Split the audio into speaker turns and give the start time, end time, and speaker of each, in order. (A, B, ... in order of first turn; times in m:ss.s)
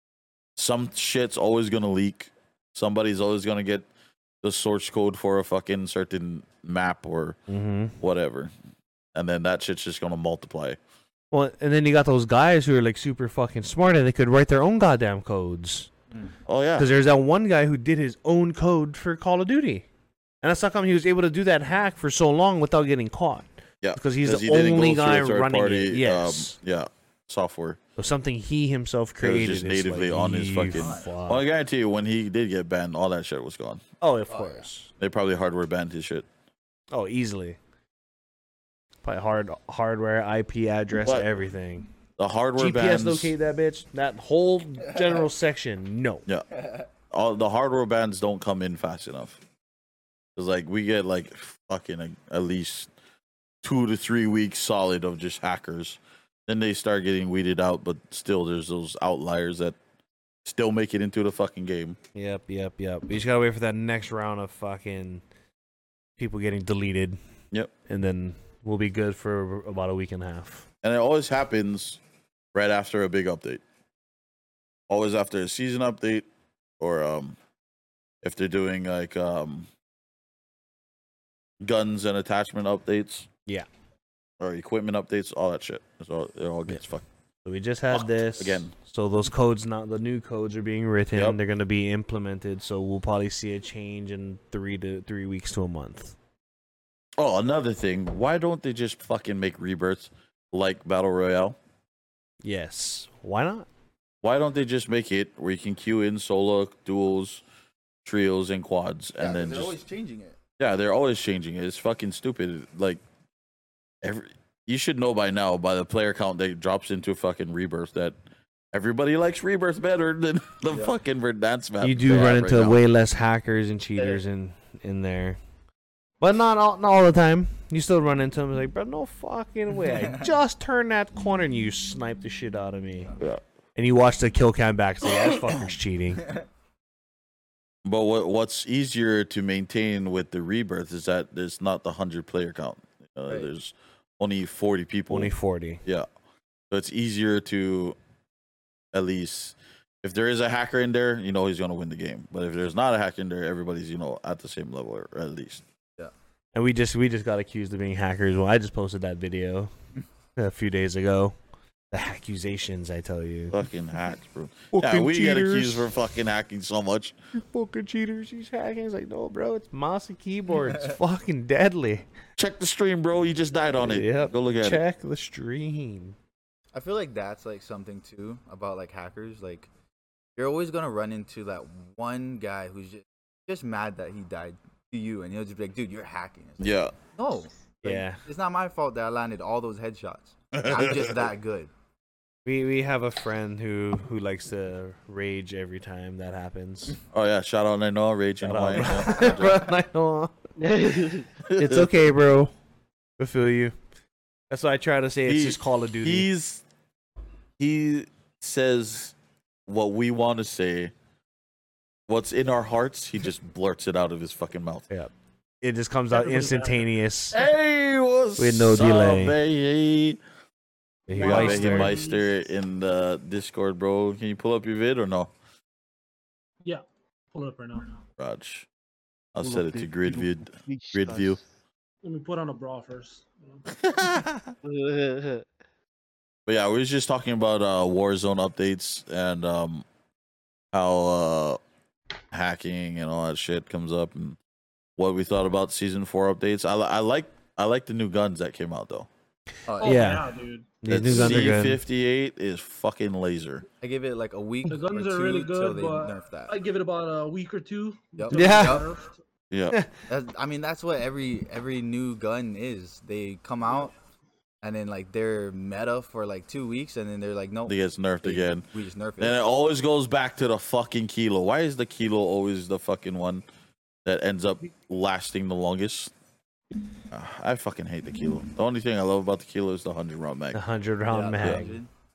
0:00.6-0:03.9 A
0:04.4-0:07.4 A
0:07.5-0:08.0 B
0:08.0-0:08.5 A
0:09.1-0:10.8 A
0:11.3-0:15.9 B
0:16.5-0:16.9 A
0:16.8-0:19.9 B
0:20.4-0:26.6 B
0:23.8-0:27.8 A
0:28.0-0:31.4 B
0:29.2-0:33.8 A
0:30.7-0:31.1 C
0:34.0-0:34.9 B
0:34.3-0:34.7 C
0:35.0-0:36.2 A
0:36.9-0:37.6 B
0:39.0-0:41.9 B
0:42.2-0:43.4 A
0:42.6-0:46.2 B
0:46.5-0:46.9 C
0:47.1-0:49.4 A
0:50.4-0:52.9 A
0:53.6-0:59.8 A
1:00.4-1:02.0 A
1:02.1-1:05.2 B
1:06.2-1:07.2 B
1:07.9-1:10.6 B
1:10.8-1:12.0 A
1:12.5-1:13.6 A
1:14.9-1:16.3 A
1:16.8-1:17.4 A
1:18.2-1:19.7 A
1:21.6-1:23.3 A
1:24.4-1:27.0 A
1:27.4-1:36.2 B
1:27.9-1:28.7 A
1:31.1-1:31.4 A
1:37.2-1:41.6 A
1:42.4-1:43.7 B
1:44.2-1:47.4 A
1:48.0-1:49.8 A
1:49.2-1:50.4 C
1:50.6-1:53.0 A
1:54.0-1:58.2 A
1:58.7-2:02.8 A
2:00.7-2:00.9 C
2:01.8-2:05.4 B
2:06.2-2:13.2 B
2:09.9-2:10.2 C
2:13.8-2:16.4 B
2:17.8-2:25.3 A
2:25.1-2:25.8 B
2:26.7-2:28.0 A
2:28.9-2:35.6 A
2:36.5-2:39.7 B
2:40.4-2:41.4 B
2:41.9-2:43.6 B
2:43.5-2:47.2 A
2:44.7-2:45.9 B
2:47.4-2:52.1 B
2:50.7-2:50.9 C
2:52.4-2:54.8 A
2:53.8-2:56.1 B
2:56.7-2:59.7 C
3:00.4-3:11.7 C
3:06.6-3:06.9 A
3:07.8-3:08.2 B
3:10.5-3:11.1 A
3:12.4-3:17.0 B
3:17.1-3:19.6 A
3:18.4-3:20.3 B
3:18.8-3:19.6 C
3:20.6-3:21.3 D
3:21.4-3:22.1 A
3:21.6-3:22.5 B
3:23.2-3:23.8 B
3:24.5-3:26.3 B
3:25.3-3:26.6 A
3:27.6-3:29.1 A
3:29.7-3:30.9 A
3:32.1-3:34.9 A
3:34.9-3:37.4 B
3:36.1-3:36.9 E
3:37.3-3:40.2 A
3:38.4-3:39.4 B
3:41.1-3:42.0 B
3:41.1-3:42.2 E
3:41.2-3:45.3 A
3:46.6-3:47.9 E
3:48.2-3:48.7 A
3:49.3-3:51.4 A
3:49.4-3:51.4 D
3:52.0-3:53.6 E
3:53.7-3:54.5 A
3:54.6-3:55.4 D
3:56.5-3:59.8 A
4:00.7-4:01.6 A
4:02.3-4:04.4 A
4:05.0-4:09.1 A
4:09.7-4:10.2 C
4:09.8-4:10.8 E
4:09.8-4:10.3 B
4:10.8-4:11.8 B
4:10.9-4:13.6 A
4:13.8-4:16.6 C
4:14.7-4:19.1 E
4:18.2-4:18.9 C
4:18.3-4:18.8 B
4:19.5-4:19.8 A
4:20.1-4:23.9 C
4:24.6-4:29.4 C
4:27.7-4:28.7 A
4:29.2-4:33.4 A
4:34.0-4:36.1 A
4:37.1-4:40.6 A
4:40.5-4:41.8 B
4:41.1-4:41.9 C